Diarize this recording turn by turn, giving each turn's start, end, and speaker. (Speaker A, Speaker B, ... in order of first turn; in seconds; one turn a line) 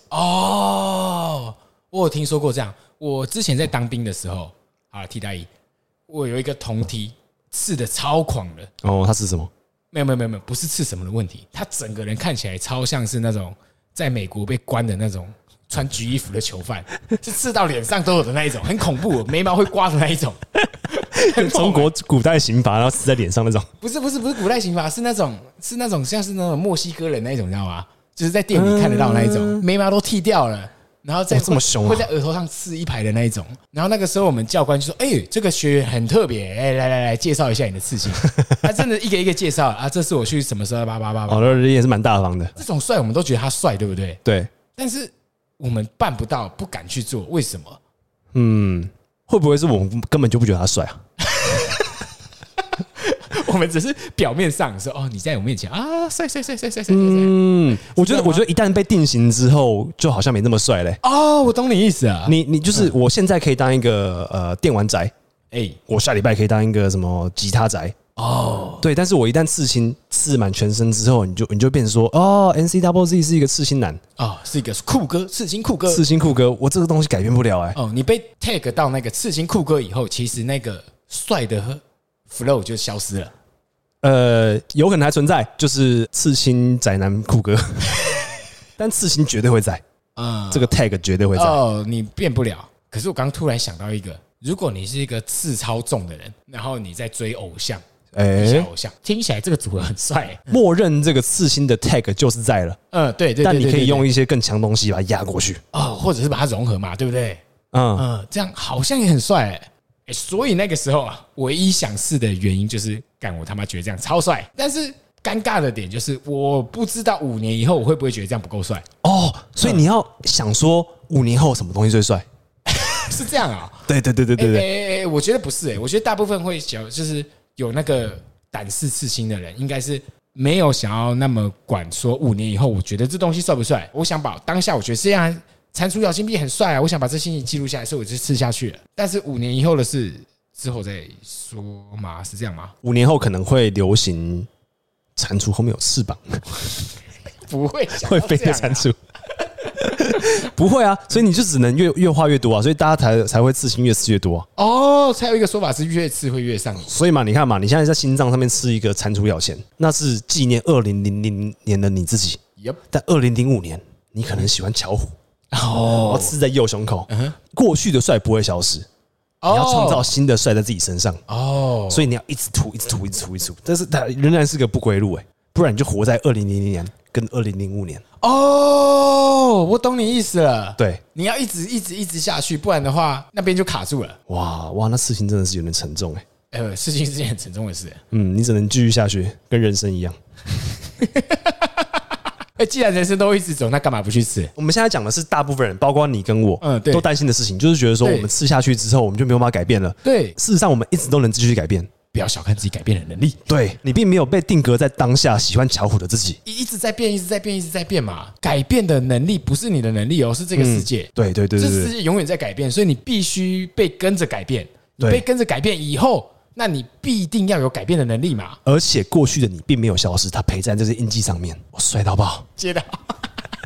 Speaker A: 0.1-5.5
Speaker A: 6.1-8.7
Speaker B: 8.8-9.5
Speaker A: 9.9-21.9
Speaker B: 21.1-23.7
Speaker A: 23.8-41.5
Speaker B: 28.5-29.6
Speaker B: 31.3-32.1
Speaker B: 41.3-42.5
Speaker A: 42.5-44.2
Speaker B: 44.2-44.5
Speaker A: 44.7-47.8
Speaker B: 48.3-51.0
Speaker A: 51.2-52.0
Speaker A: 52.8-58.5
Speaker B: 56.9-61.0
Speaker A: 61.0-62.9
Speaker B: 62.2-65.1
Speaker A: 65.5-65.8
Speaker B: 65.9-68.0
Speaker A: 68.2-68.8
Speaker B: 68.8-74.0
Speaker A: 74.2-76.0
Speaker B: 75.9-77.8
Speaker A: 77.7-83.3
Speaker B: 84.0-88.2
Speaker B: 88.8-89.8
Speaker A: 90.2-90.7
Speaker B: 90.5-91.6
Speaker A: 91.3-97.8
Speaker B: 98.1-98.7
Speaker A: 98.3-100.5
Speaker B: 100.5-102.8
Speaker A: 102.9-104.1
Speaker B: 103.4-105.6
Speaker A: 105.7-107.4
Speaker B: 107.7-108.0
Speaker A: 108.0-118.8
Speaker B: 119.0-122.2
Speaker A: 122.7-142.7
Speaker B: 123.9-124.7
Speaker B: 142.8-144.5
Speaker B: 145.2-146.6
Speaker A: 147.4-148.9
Speaker B: 148.0-148.9
Speaker B: 149.8-154.5
Speaker A: 154.6-156.9
Speaker B: 156.8-162.4
Speaker B: 162.9-165.1
Speaker A: 165.5-166.4
Speaker B: 165.8-168.8
Speaker A: 167.1-167.3
Speaker A: 169.4-170.1
Speaker B: 169.5-171.2
Speaker A: 171.3-172.1
Speaker B: 171.9-178.0
Speaker A: 178.2-184.2
Speaker B: 184.3-186.2
Speaker A: 186.5-188.0
Speaker B: 188.1-190.2
Speaker A: 191.0-191.7
Speaker A: 192.6-194.5
Speaker B: 194.6-201.9
Speaker A: 196.6-197.1
Speaker A: 198.0-198.3
Speaker A: 200.0-200.4
Speaker A: 202.1-203.4
Speaker B: 203.5-206.4
Speaker A: 206.4-218.6
Speaker B: 210.5-211.9
Speaker B: 215.0-215.2
Speaker B: 218.7-222.5
Speaker A: 222.6-223.3